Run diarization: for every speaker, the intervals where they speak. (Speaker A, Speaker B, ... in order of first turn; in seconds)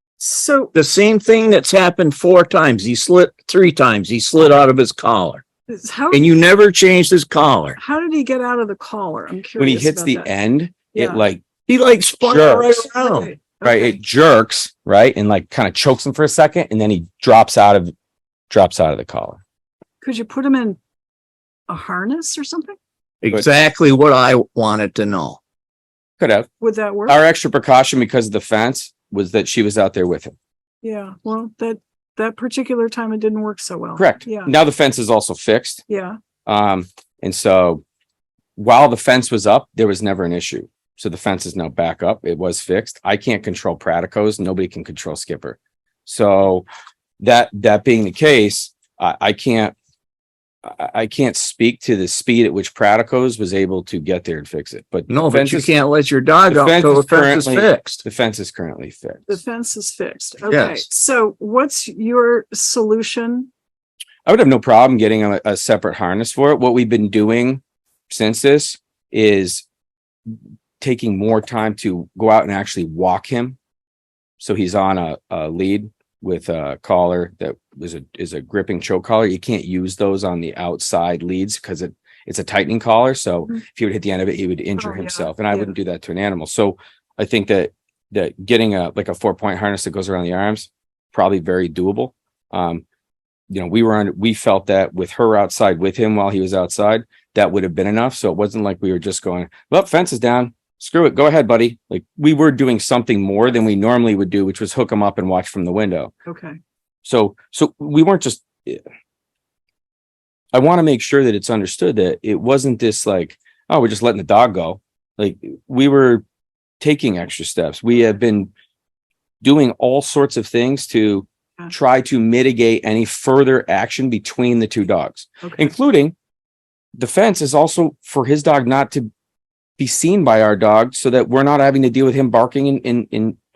Speaker A: 0.2-0.7, 5.7-6.4, 7.8-10.3, 10.9-11.2, 12.8-13.9, 20.0-20.8, 21.7-22.8, 26.6-27.2, 30.8-34.5, 35.9-36.2, 59.3-63.5, 84.8-85.7, 106.2-106.6
Speaker B: 0.7-5.4, 6.1-7.8, 11.7-13.3, 23.2-25.4, 55.1-58.0, 60.5-60.8
Speaker C: 9.6-11.4, 12.2-12.7, 13.6-17.9, 18.5-19.4, 26.2-26.5, 27.1-30.3, 34.0-35.8, 36.5-37.8, 38.6-46.6, 47.2-49.7, 50.6-55.7, 56.5-59.4, 64.2-69.6, 70.8-73.6, 74.4-92.8, 93.5-106.1, 107.0-108.8, 110.5-116.2, 116.8-118.5, 119.4-126.1, 127.0-129.1, 129.8-133.4